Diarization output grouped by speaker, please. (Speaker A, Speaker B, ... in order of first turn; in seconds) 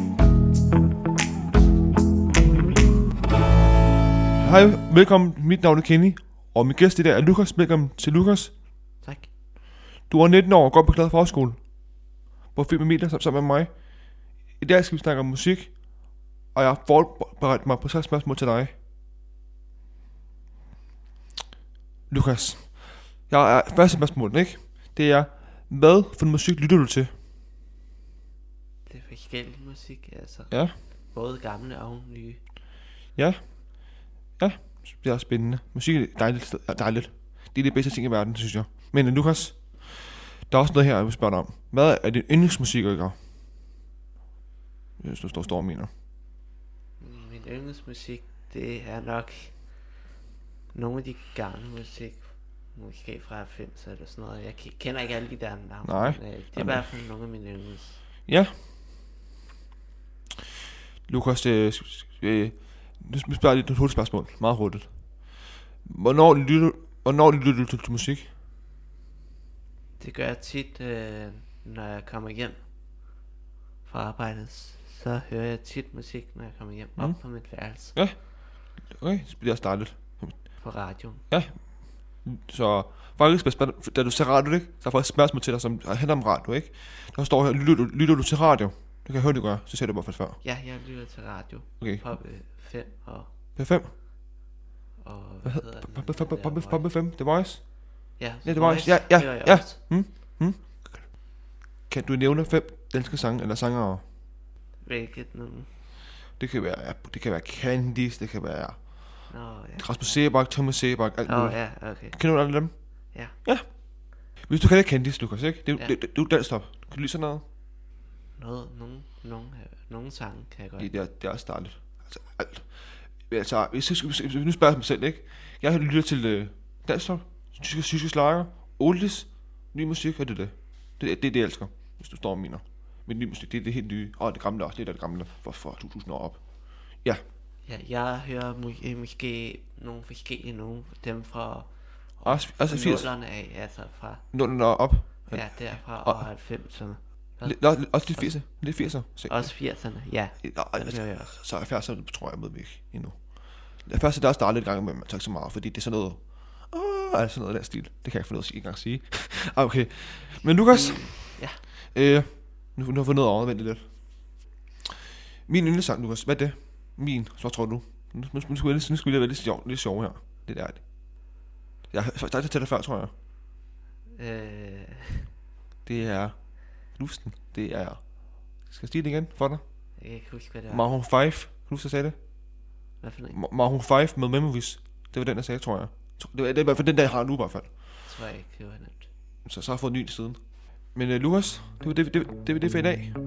Speaker A: 4.4-8.6, 10.1-11.6, 12.5-18.7, 22.1-27.1, 30.5-30.7, 33.1-43.1, 45.0-45.9, 55.8-56.9, 58.3-58.5, 61.0-64.9, 65.8-68.2, 77.9-80.6, 81.3-90.4, 91.8-92.0, 93.5-93.9, 95.4-101.1, 101.9-104.0, 106.4-117.4, 120.8-137.2, 142.2-143.1, 144.3-146.3, 147.4-164.0, 165.4-170.9, 171.9-173.1, 175.8-179.6, 180.7-182.2, 183.3-187.7, 189.4-190.4, 190.9-193.1
Speaker B: 9.0-9.3, 28.9-32.4, 47.0-49.6, 50.7-58.0, 70.0-72.6, 73.8-78.0, 80.6-81.2, 90.4-93.3, 95.0-96.9, 98.2-100.1, 104.8-105.7, 109.3-110.5, 111.2-112.5, 113.1-113.3, 118.3-120.9, 137.6-144.2, 145.3-151.4, 160.7-161.6, 174.2-175.3, 180.0-180.9, 183.0-183.4, 188.0-189.1